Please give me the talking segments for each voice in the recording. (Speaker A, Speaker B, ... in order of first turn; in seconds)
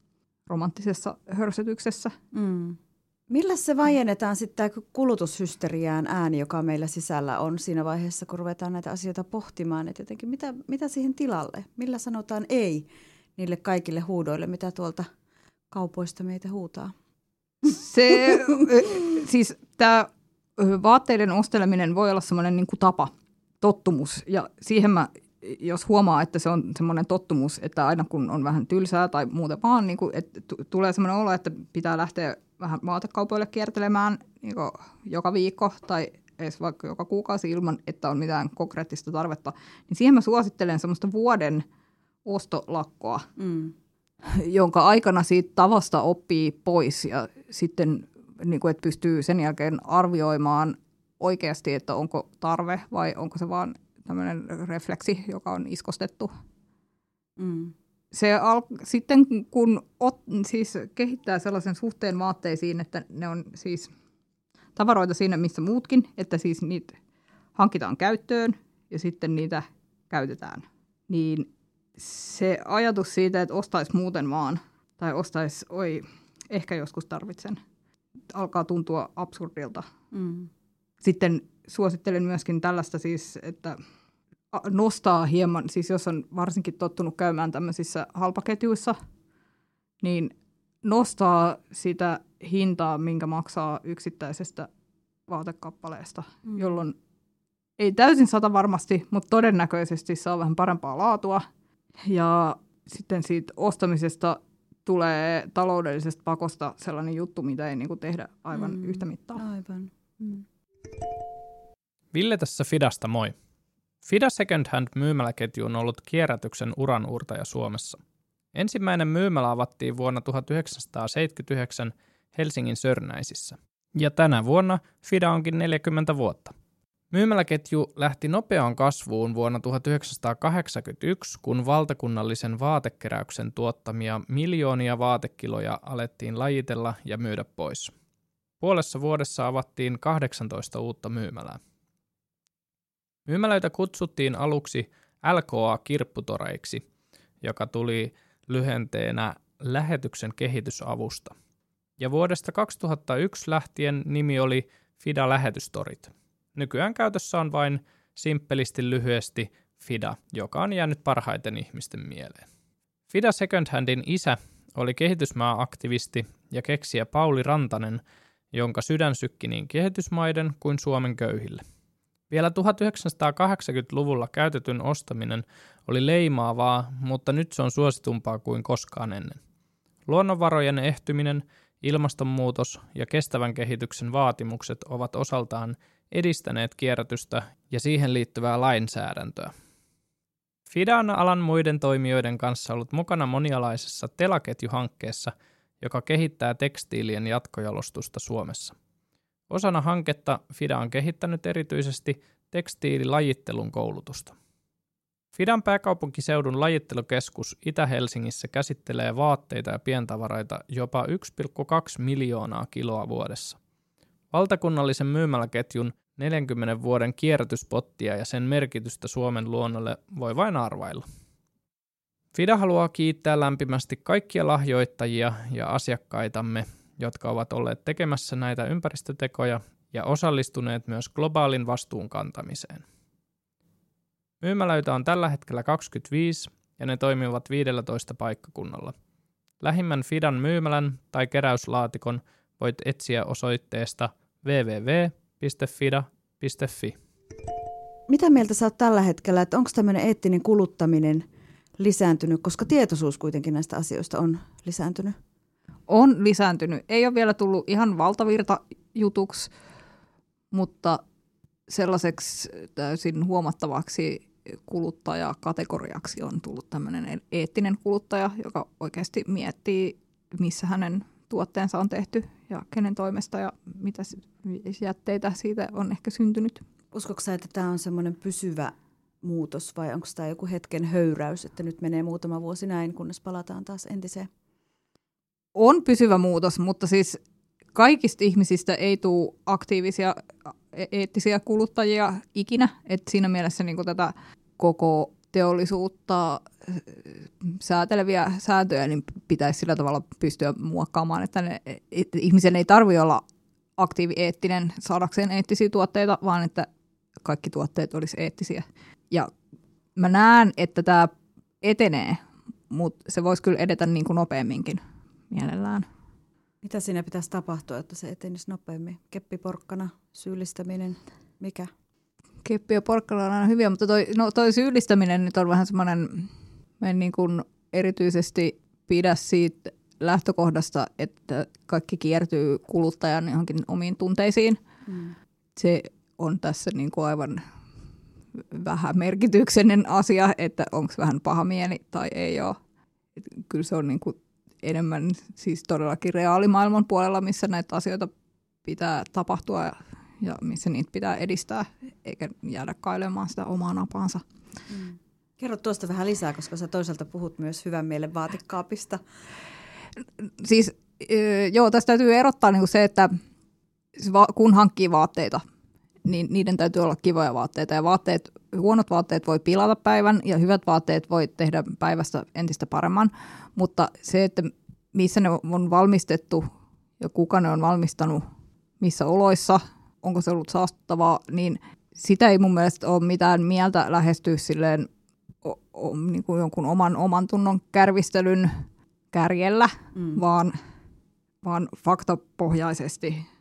Speaker A: 0.5-2.1, 17.6-41.6, 42.2-43.3, 44.2-56.3, 58.1-63.9, 64.8-67.0, 67.5-77.6, 78.3-79.8, 81.0-83.8, 84.5-89.0, 90.0-90.3, 90.8-94.7, 95.3-96.9, 97.8-101.4, 102.0-109.4, 255.9-259.5, 260.5-261.0, 261.7-276.6, 285.5-287.2, 287.7-303.2, 303.8-306.7, 307.2-309.3, 310.0-315.9, 322.4-334.6, 335.6-337.4, 338.5-342.6, 343.2-348.1, 348.6-354.2, 360.2-363.2, 363.9-365.4, 366.0-376.5, 377.0-378.2, 378.8-384.9, 385.4-390.5, 391.4-393.2
Speaker B: 2.3-15.1, 15.7-16.9, 18.1-18.4, 43.4-43.7, 57.4-57.7, 80.1-80.5, 108.5-110.4, 248.1-251.2, 251.8-255.2, 276.9-284.3, 316.6-321.7, 334.9-335.1, 354.7-359.0
Speaker C: 112.1-113.3, 114.0-118.0, 118.5-126.5, 127.1-137.9, 138.6-141.6, 143.3-146.8, 147.4-151.3, 152.0-162.4, 163.1-168.0, 168.5-171.6, 172.3-179.4, 180.1-189.5, 190.7-198.7, 199.5-204.3, 205.3-213.6, 214.3-221.0, 222.3-232.8, 234.4-238.9, 239.6-247.0